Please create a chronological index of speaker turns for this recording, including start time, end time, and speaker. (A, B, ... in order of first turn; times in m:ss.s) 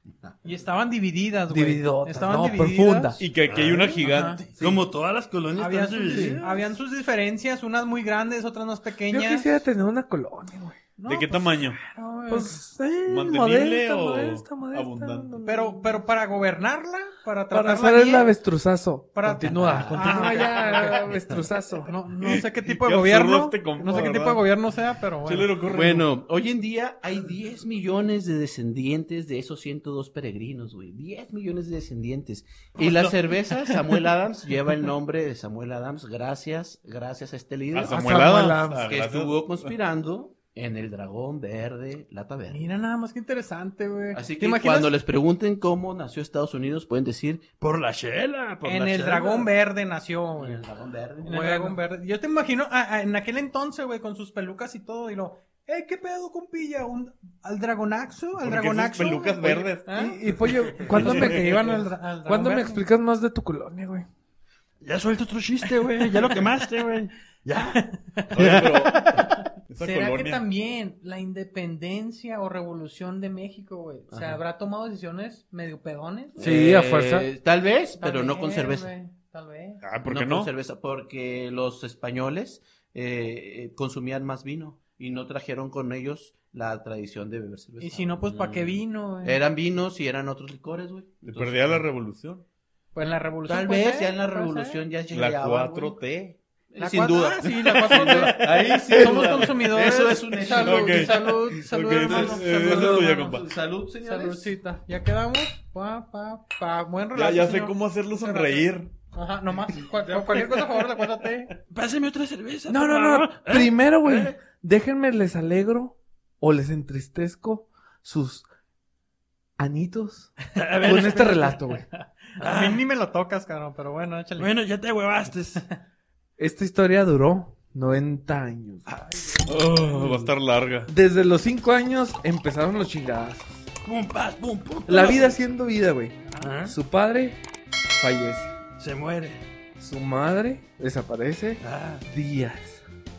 0:00.4-0:03.2 A
0:01.5-0:03.2 B
0:03.2-0:04.5 C
0:03.5-0:06.7 D
0:04.0-0:04.4 A
0:04.6-0:04.8 E
0:05.6-0:09.5 A
0:06.1-0:06.4 E
0:09.1-0:10.8 B
0:11.0-0:12.6 A
0:11.1-0:11.8 C
0:12.3-0:16.0 B
0:13.0-0:15.3 C
0:15.4-0:18.3 A
0:17.5-0:21.9 B
0:19.1-0:21.1 A
0:19.5-0:20.4 E
0:21.8-0:25.5 A
0:22.2-0:24.4 C
0:25.2-0:26.1 C
0:25.6-0:38.0 E
0:37.7-0:39.7 C
0:37.9-0:38.8 B
0:38.8-0:42.7 E
0:42.5-0:44.9 A
0:44.1-0:47.4 E
0:47.6-0:49.5 D
0:48.6-0:50.6 A
0:50.4-0:51.7 E
0:51.2-1:00.2 A
0:58.4-1:00.0 C
0:59.9-1:04.1 B
1:00.8-1:02.8 A
1:00.8-1:01.6 C
1:04.8-1:08.8 D
1:05.7-1:06.4 A
1:07.7-1:16.5 A
1:08.3-1:10.4 C
1:14.1-1:14.4 E
1:16.4-1:18.9 E
1:16.4-1:17.3 B
1:18.0-1:19.8 A
1:19.8-1:20.5 C
1:20.1-1:31.8 E
1:27.8-1:29.4 A
1:31.2-1:32.4 C
1:32.9-1:34.8 A
1:33.5-1:36.0 E
1:35.1-1:36.4 C
1:36.7-1:41.3 E
1:36.8-1:43.4 A
1:37.7-1:39.7 C
1:40.5-1:43.5 C
1:41.9-1:44.5 E
1:44.0-1:51.6 A
1:47.1-1:48.9 C
1:51.7-1:54.3 D
1:52.7-1:58.4 B
1:59.6-2:01.8 B
2:00.5-2:01.5 D
2:00.8-2:01.3 A
2:02.4-2:02.8 D
2:02.4-2:04.5 A
2:04.4-2:05.6 D
2:06.4-2:08.9 B
2:08.8-2:09.6 D
2:09.4-2:10.9 C
2:09.9-2:10.3 B
2:10.9-2:13.6 B
2:13.8-2:15.4 D
2:14.9-2:17.4 B
2:16.4-2:16.8 D
2:17.9-2:18.5 B
2:18.8-2:19.4 D
2:19.8-2:22.8 B
2:21.6-2:22.0 D